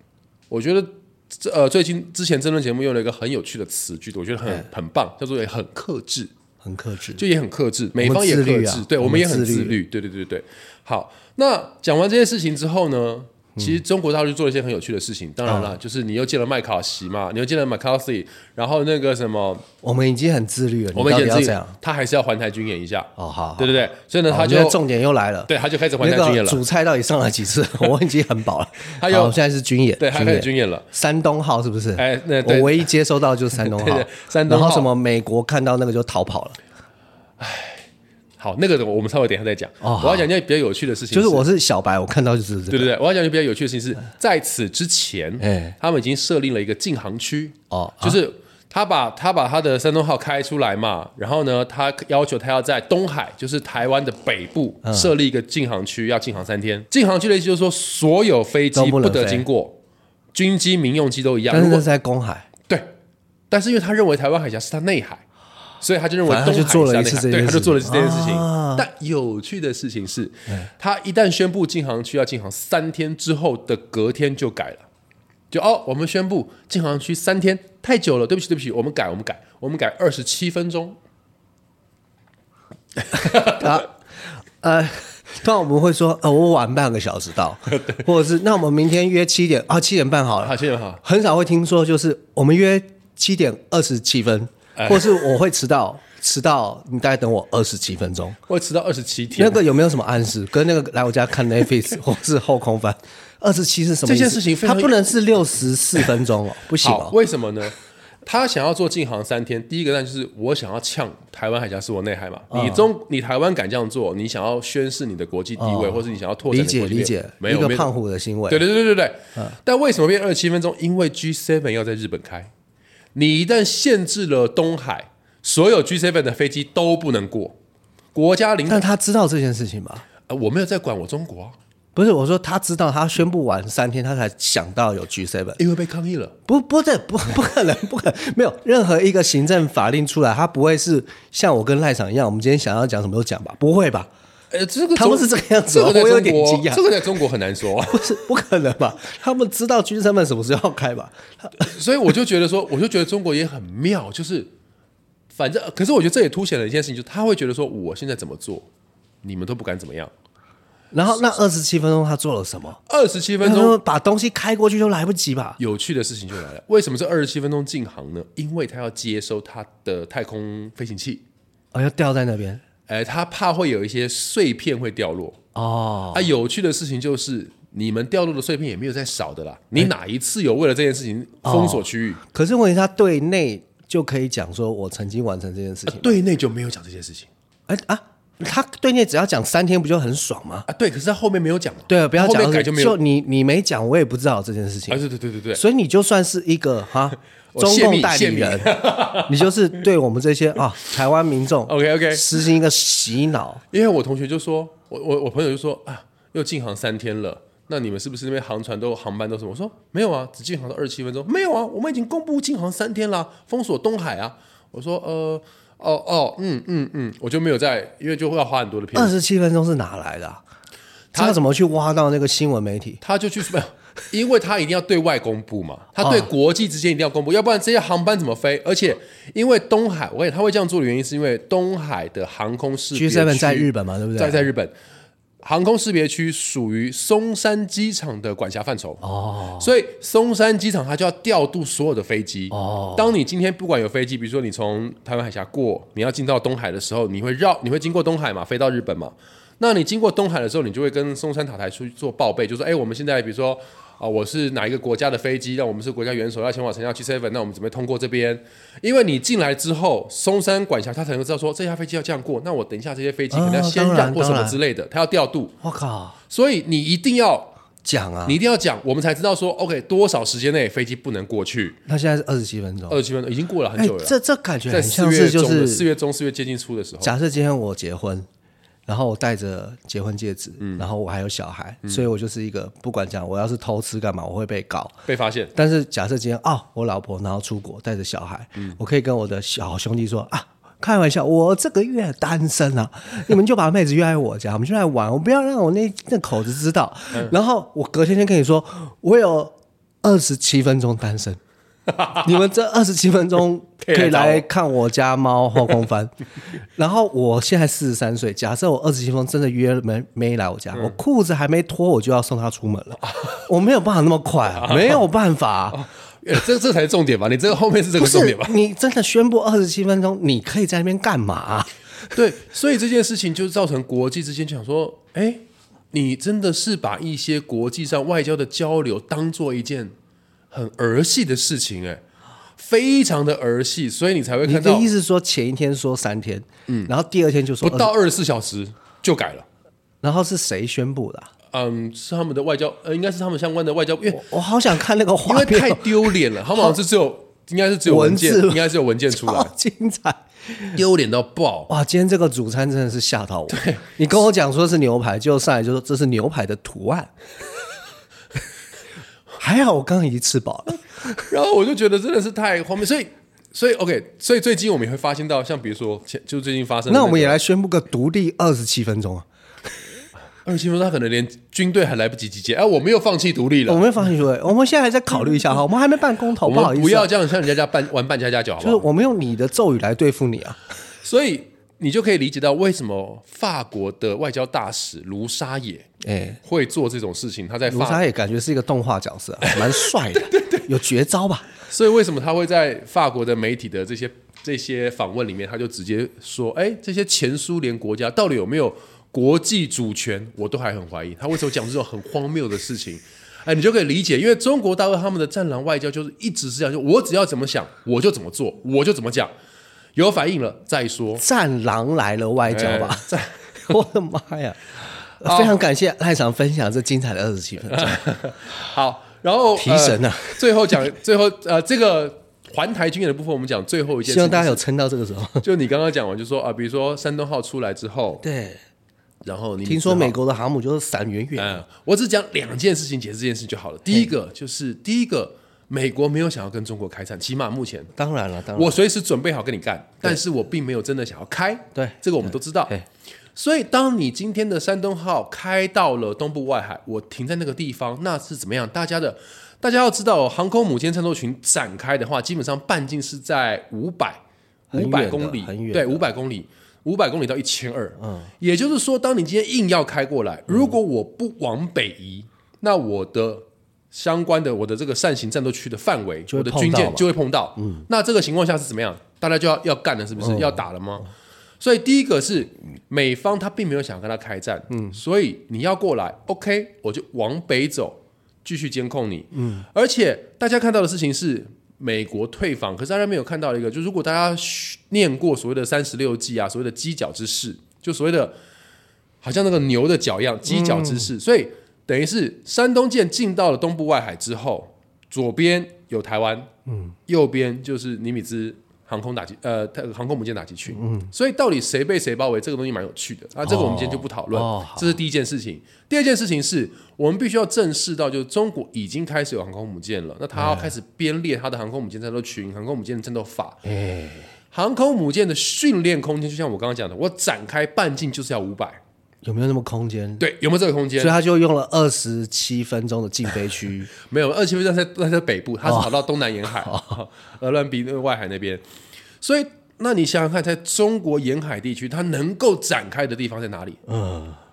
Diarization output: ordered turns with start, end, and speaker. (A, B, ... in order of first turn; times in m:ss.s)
0:00.5-0:06.3 A
0:06.6-0:07.2 B
0:07.2-0:19.6 A
0:08.0-0:09.8 B
0:13.6-0:13.8 B
0:15.5-0:15.8 B
0:19.8-0:21.8 B
0:20.9-0:24.8 A
0:23.2-0:36.6 B
0:25.5-0:26.6 A
0:29.0-0:29.4 A
0:30.0-0:30.9 A
0:32.0-0:32.9 A
0:33.6-0:34.9 A
0:37.4-0:37.9 A
0:38.4-0:41.5 A
0:39.8-0:40.3 B
0:41.1-0:42.9 B
0:42.7-0:59.8 A
0:45.4-0:45.8 B
0:47.7-0:48.2 B
0:54.8-0:55.1 B
0:58.8-0:59.5 B
1:00.3-1:01.9 A
1:01.5-1:02.5 B
1:03.5-1:05.2 A
1:05.8-1:14.9 A
1:06.3-1:08.9 B
1:15.5-1:21.0 A
1:23.0-1:23.8 A
1:23.2-1:23.9 B
1:24.6-1:38.4 B
1:27.7-1:28.0 A
1:30.4-1:31.0 A
1:34.8-1:35.1 A
1:38.5-1:39.6 A
1:39.4-1:47.2 B
1:44.1-1:45.0 A
1:46.8-1:57.9 A
1:52.5-1:52.9 B
1:55.6-1:58.6 B
1:58.5-2:02.5 A
2:03.2-2:07.6 A
2:08.2-2:08.9 A
2:08.7-2:10.1 B
2:10.3-2:11.6 A
2:12.0-2:15.6 B
2:15.6-2:16.4 A
2:16.5-2:24.1 B
2:24.5-2:28.1 A
2:25.0-2:26.8 B
2:27.9-2:31.7 B
2:31.6-2:34.5 A
2:35.3-2:38.7 A
2:39.2-2:40.1 A
2:40.9-2:42.8 B
2:42.9-2:43.8 A
2:43.4-2:45.6 B
2:45.6-2:51.2 A
2:51.7-2:52.6 B
2:52.9-2:55.4 A
2:55.6-2:56.3 B
2:56.1-3:02.2 A
3:01.4-3:06.2 B
3:05.9-3:07.3 A
3:07.7-3:10.7 B
3:10.7-3:13.0 A
3:11.9-3:15.0 B
3:14.9-3:15.6 A
3:15.6-3:23.6 B
3:17.5-3:19.5 A
3:21.7-3:22.4 A
3:23.7-3:39.1 A
3:38.9-3:40.4 B
3:41.1-3:43.0 B
3:43.0-3:54.7 A
3:46.0-3:46.3 B
3:52.9-3:54.5 B
3:55.4-4:25.6 A
3:59.0-3:59.7 B
4:02.5-4:03.2 B
4:23.3-4:24.6 B
4:25.6-4:26.2 B
4:26.3-4:27.5 A
4:27.8-4:28.4 B
4:28.3-4:31.8 A
4:31.9-4:33.0 B
4:32.9-4:34.2 A
4:33.8-4:35.9 B
4:34.7-4:37.1 A
4:37.0-4:38.3 B
4:38.9-4:45.0 B
4:40.6-4:40.9 A
4:45.1-4:45.5 A
4:45.6-5:01.4 B
5:01.9-5:02.3 A
5:02.1-5:06.1 B
5:03.8-5:04.5 A
5:06.8-5:15.8 B
5:13.0-5:13.4 A
5:14.6-5:15.0 A
5:15.7-5:18.6 A
5:18.0-5:22.2 B
5:22.1-5:29.9 A
5:30.5-5:32.0 A
5:32.6-5:34.9 A
5:34.4-5:37.9 B
5:37.6-5:39.5 A
5:40.0-5:41.3 B
5:41.5-5:44.3 A
5:44.1-5:46.8 B
5:45.2-5:49.5 A
5:47.8-5:50.8 B
5:50.7-5:51.7 A
5:51.7-5:57.1 B
5:53.5-5:53.9 A
5:59.4-6:01.3 B
6:01.3-6:07.4 A
6:06.9-6:09.3 B
6:10.4-6:13.8 A
6:13.7-6:17.1 B
6:16.4-6:18.9 A
6:18.6-6:20.6 B
6:21.0-6:25.9 A
6:26.0-6:26.4 B
6:26.4-6:28.0 A
6:27.7-6:31.5 B
6:29.4-6:30.7 A
6:31.7-6:49.3 A
6:50.0-6:51.2 A
6:51.2-6:53.1 B
6:52.5-6:53.5 A
6:53.6-6:54.6 B
6:55.2-6:58.0 B
6:55.2-6:55.6 A
6:57.7-7:04.6 A
6:59.6-7:00.8 B
7:04.0-7:05.4 B
7:05.4-7:08.2 A
7:08.2-7:08.6 B
7:09.2-7:10.2 A
7:09.6-7:11.6 B
7:11.4-7:17.9 A
7:18.0-7:18.8 B
7:18.6-7:22.7 A
7:21.8-7:22.8 B
7:23.4-7:34.2 A
7:34.7-7:36.0 B
7:34.7-7:51.1 A
7:38.0-7:38.3 B
7:40.5-7:40.8 B
7:46.3-7:47.9 B
7:50.2-7:50.6 B
7:51.6-8:08.4 A
7:54.7-7:55.0 B
7:59.3-7:59.7 B
8:09.2-8:16.5 A
8:10.4-8:11.1 B
8:16.7-8:17.0 B
8:17.1-8:33.6 A
8:20.7-8:21.1 B
8:23.4-8:25.0 B
8:30.3-8:30.7 B
8:33.6-8:34.3 B
8:34.5-8:38.8 A
8:39.2-8:40.2 B
8:40.2-8:41.2 A
8:41.0-8:43.9 B
8:44.0-8:48.6 A
8:45.6-8:46.0 B
8:46.6-8:47.0 B
8:49.2-8:53.8 A
8:53.9-8:54.4 B